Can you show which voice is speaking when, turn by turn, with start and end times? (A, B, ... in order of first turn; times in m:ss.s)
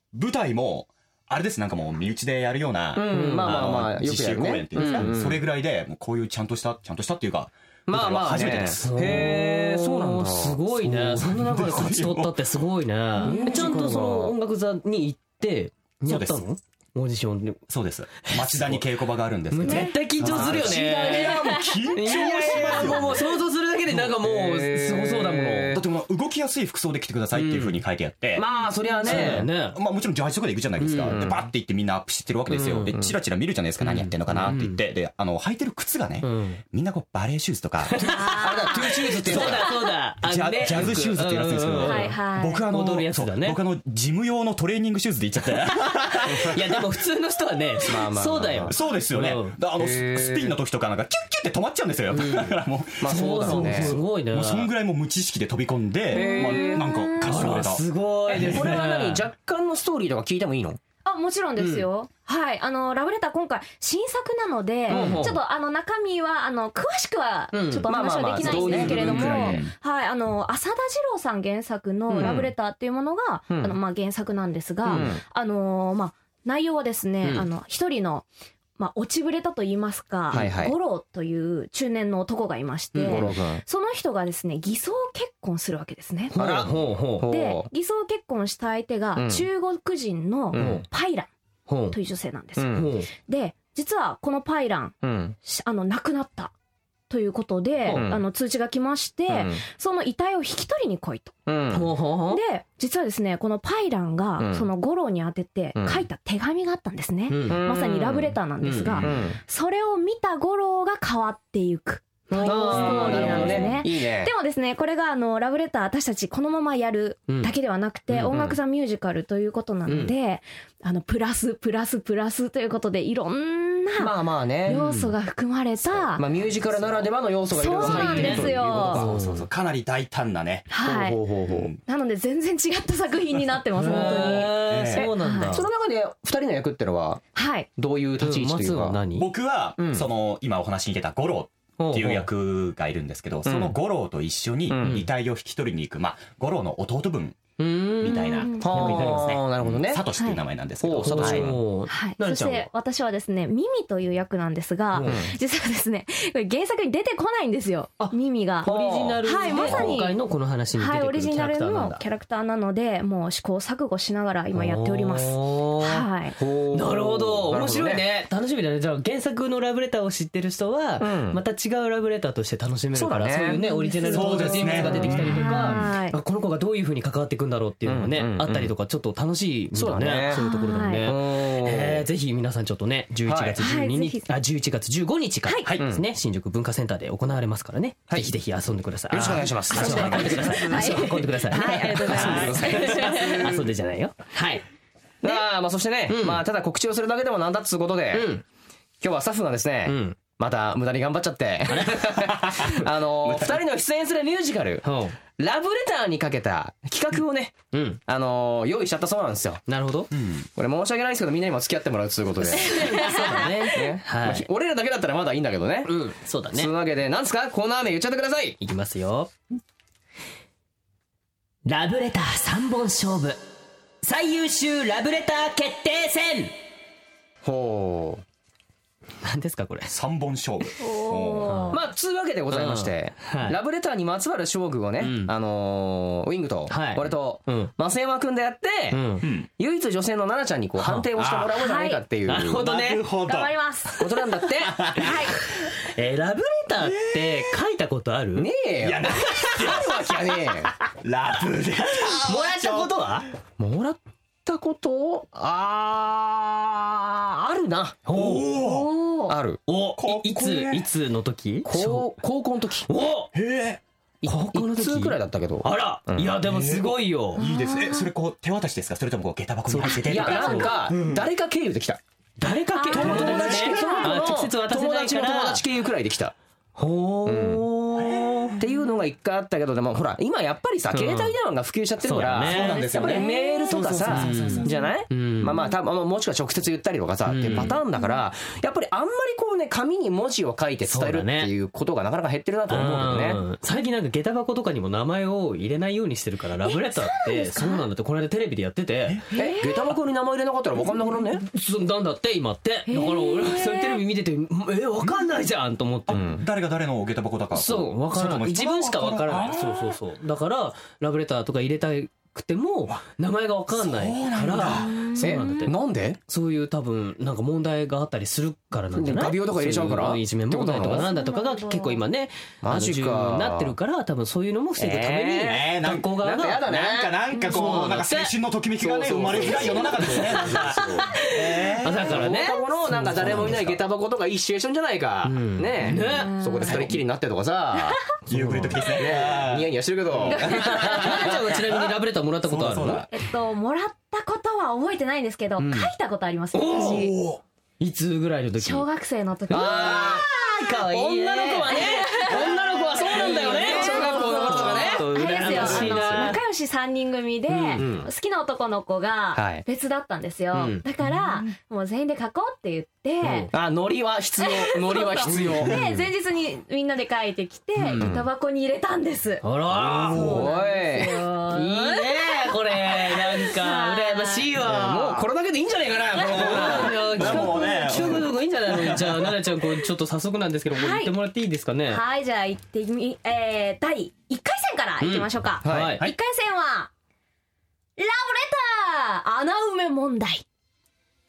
0:00.1-0:09.3 A
0:02.9-0:05.4 B
0:03.1-0:03.7 C
0:04.8-0:05.2 C
0:07.9-0:11.2 B
0:08.8-0:17.6 C
0:11.1-0:12.4 A
0:13.2-0:14.3 B
0:13.2-0:13.6 D
0:16.0-0:16.4 A
0:17.7-0:23.2 A
0:18.3-0:18.8 C
0:19.5-0:25.8 C
0:19.7-0:21.2 B
0:22.0-0:25.8 B
0:25.7-0:28.4 A
0:27.3-0:27.8 C
0:28.4-0:29.5 B
0:29.0-0:38.1 A
0:29.0-0:29.8 C
0:30.8-0:31.2 C
0:31.0-0:31.4 B
0:32.5-0:33.1 B
0:33.8-0:34.8 C
0:36.2-0:36.6 C
0:37.9-0:43.6 C
0:38.0-0:39.2 D
0:38.2-0:39.7 B
0:39.3-0:39.7 A
0:40.2-0:46.8 A
0:41.8-0:42.6 D
0:46.2-0:49.6 C
0:47.8-0:48.7 B
0:48.7-0:58.7 A
0:49.8-0:50.6 B
0:52.1-0:54.7 C
0:53.0-0:54.0 B
0:56.1-0:57.4 D
0:56.2-0:56.8 B
0:56.2-0:59.2 C
0:58.3-1:00.8 B
1:01.0-1:26.4 D
1:01.6-1:01.8 C
1:04.9-1:05.3 C
1:04.9-1:05.4 B
1:07.5-1:09.5 C
1:07.8-1:09.6 B
1:08.7-1:09.7 A
1:12.1-1:12.5 C
1:12.1-1:12.5 B
1:13.5-1:13.8 B
1:14.8-1:15.1 C
1:14.9-1:15.2 B
1:20.3-1:20.8 B
1:22.9-1:23.6 B
1:26.3-1:27.3 C
1:26.3-1:27.7 B
1:27.2-1:31.3 D
1:29.2-1:29.4 B
1:30.5-1:30.8 B
1:30.5-1:30.8 C
1:31.7-1:32.0 C
1:31.9-1:36.5 D
1:32.6-1:32.9 B
1:32.7-1:33.1 C
1:35.0-1:35.4 B
1:37.1-1:41.4 D
1:37.9-1:38.2 B
1:39.3-1:39.6 B
1:41.5-1:41.9 B
1:41.7-1:42.4 C
1:42.3-2:06.2 D
1:44.4-1:44.7 B
1:45.8-1:46.0 B
1:47.3-1:47.6 C
1:47.4-1:48.3 B
1:48.6-1:49.0 C
1:49.0-1:49.4 B
1:52.3-1:53.8 C
1:52.3-1:54.3 B
1:58.1-1:58.4 C
1:58.3-1:58.6 B
1:59.9-2:00.1 C
2:04.0-2:04.8 B
2:04.6-2:05.1 C
2:06.0-2:09.1 B
2:06.4-2:07.0 A
2:07.5-2:09.0 D
2:07.8-2:09.5 C
2:08.1-2:10.7 A
2:10.7-2:11.2 D
2:10.8-2:11.7 B
2:11.4-2:11.8 A
2:11.8-2:15.6 D
2:13.8-2:15.6 C
2:14.2-2:15.1 A
2:15.0-2:17.2 B
2:17.3-2:17.7 D
2:17.8-2:19.0 B
2:18.2-2:19.3 C
2:19.2-2:31.6 A
2:19.8-2:20.0 B
2:21.8-2:22.3 C
2:23.4-2:23.8 B
2:24.7-2:25.0 B
2:27.6-2:29.4 C
2:28.1-2:29.0 D
2:28.6-2:30.0 B
2:30.2-2:30.4 D
2:30.8-2:31.5 B
2:31.0-2:32.7 C
2:31.9-2:40.2 D
2:34.9-2:35.2 C
2:35.0-2:35.3 B
2:38.0-2:42.0 C
2:38.6-2:39.9 B
2:40.8-2:46.4 D
2:44.5-2:46.0 C
2:46.4-2:48.0 B
2:46.7-3:14.6 C
2:51.0-2:51.4 B
2:52.9-2:53.6 B
2:53.5-2:56.2 D
2:54.1-2:55.5 A
2:57.8-2:58.7 B
2:59.7-3:00.4 B
3:00.3-3:01.0 D
3:01.0-3:02.0 B
3:03.2-3:03.6 B
3:03.6-3:04.4 D
3:05.5-3:05.8 D
3:05.8-3:06.0 B
3:09.1-3:11.0 B
3:09.7-3:13.5 D
3:11.5-3:13.7 B
3:15.2-3:18.3 B
3:16.1-3:16.4 C
3:18.1-3:18.4 C
3:19.0-3:24.8 B
3:19.8-3:20.2 C
3:21.7-3:22.8 C
3:22.4-3:23.6 A
3:24.8-3:25.2 C
3:25.4-3:27.5 B
3:27.7-3:28.0 C
3:28.0-3:29.6 B
3:29.7-3:30.1 C
3:30.1-3:30.5 A
3:30.5-3:35.9 B
3:32.4-3:34.5 C
3:32.6-3:33.7 D
3:35.8-3:36.7 C
3:36.5-3:38.6 B
3:38.6-3:39.3 C
3:41.6-3:43.4 C
3:44.0-3:46.6 C
3:47.4-3:48.2 B
3:49.2-3:49.9 C
3:49.9-3:51.5 A
3:50.8-3:51.8 D
3:51.4-3:51.8 C
3:51.7-4:02.6 B
3:52.5-3:53.6 C
3:55.0-3:55.3 C
3:56.7-3:57.7 C
3:58.9-3:59.2 C
3:59.2-3:59.5 A
4:00.8-4:01.1 C
4:01.1-4:01.6 A
4:01.5-4:02.0 D
4:02.3-4:03.1 C
4:02.3-4:03.5 A
4:03.2-4:04.0 D
4:04.0-4:04.9 B
4:04.7-4:05.4 A
4:04.9-4:05.4 D
4:05.6-4:08.5 C
4:06.8-4:07.6 A
4:08.4-4:10.7 B
4:08.8-4:10.1 A
4:11.0-4:13.1 A
4:12.1-4:13.3 C
4:13.6-4:18.0 B
4:18.0-4:18.5 C
4:18.1-4:18.9 A
4:18.6-4:19.4 D
4:19.3-4:19.6 B
4:19.7-4:22.2 C
4:20.0-4:20.8 A
4:21.6-4:22.9 B
4:22.8-4:23.3 C
4:23.3-4:23.8 A
4:24.2-4:26.4 B
4:24.2-4:27.4 C
4:26.4-4:30.8 A
4:27.4-4:28.1 D
4:29.7-4:31.2 C
4:29.8-4:30.8 D
4:30.0-4:32.0 B
4:32.4-4:35.6 C
4:32.7-4:34.2 D
4:32.9-4:36.3 B
4:32.9-4:34.0 A
4:36.8-4:38.6 C
4:37.2-4:37.7 B
4:37.9-4:38.6 A
4:38.6-4:53.4 B
4:40.9-4:41.4 C
4:42.0-4:42.9 C
4:42.4-4:44.8 A
4:42.7-4:43.8 D
4:44.0-4:45.6 C
4:47.3-4:47.8 C
4:47.5-4:48.1 D
4:50.8-4:51.5 C
4:52.7-4:59.2 C
4:56.6-4:57.8 D
4:59.3-4:59.9 D
4:59.3-5:01.4 B
5:01.4-5:06.4 C
5:02.9-5:04.0 D
5:06.1-5:10.0 A
5:06.1-5:06.4 B
5:07.5-5:15.7 C
5:13.7-5:15.0 A
5:14.7-5:15.6 D
5:15.2-5:16.2 B
5:16.3-5:26.9 C
5:18.9-5:21.1 B
5:20.8-5:22.0 D
5:22.6-5:23.7 B
5:24.8-5:28.0 B
5:25.4-5:32.3 A
5:27.5-5:28.3 C
5:28.8-5:31.1 B
5:29.5-5:30.3 D
5:31.1-5:33.6 C
5:32.0-5:38.0 B
5:32.9-5:33.8 A
5:35.2-5:36.8 C
5:36.0-5:36.8 D
5:38.2-5:41.3 A
5:38.3-5:38.8 C
5:38.8-5:41.9 B
5:40.2-5:41.0 D
5:40.4-5:43.1 C
5:42.4-5:43.1 A
5:43.1-5:47.2 D
5:46.5-5:48.9 C
5:46.7-5:47.0 B
5:48.6-5:50.2 D
5:49.5-5:56.4 C
5:49.5-5:56.3 B
5:51.7-6:03.5 D
5:57.5-5:57.8 C
5:57.8-5:58.1 B
5:59.3-5:59.6 B
6:00.5-6:00.8 C
6:03.2-6:03.5 C
6:03.5-6:05.8 B
6:04.4-6:09.4 D
6:07.8-6:08.2 B
6:09.4-6:10.5 C
6:09.7-6:10.4 A
6:10.1-6:11.3 B
6:10.1-6:12.1 D
6:11.5-6:15.2 C
6:13.1-6:14.5 D
6:14.6-6:17.4 B
6:16.2-6:22.0 C
6:16.2-6:19.6 A
6:17.2-6:18.1 D
6:20.7-6:21.1 D
6:21.9-6:26.9 D
6:25.0-6:26.1 C
6:25.6-6:26.0 B
6:28.0-6:30.4 D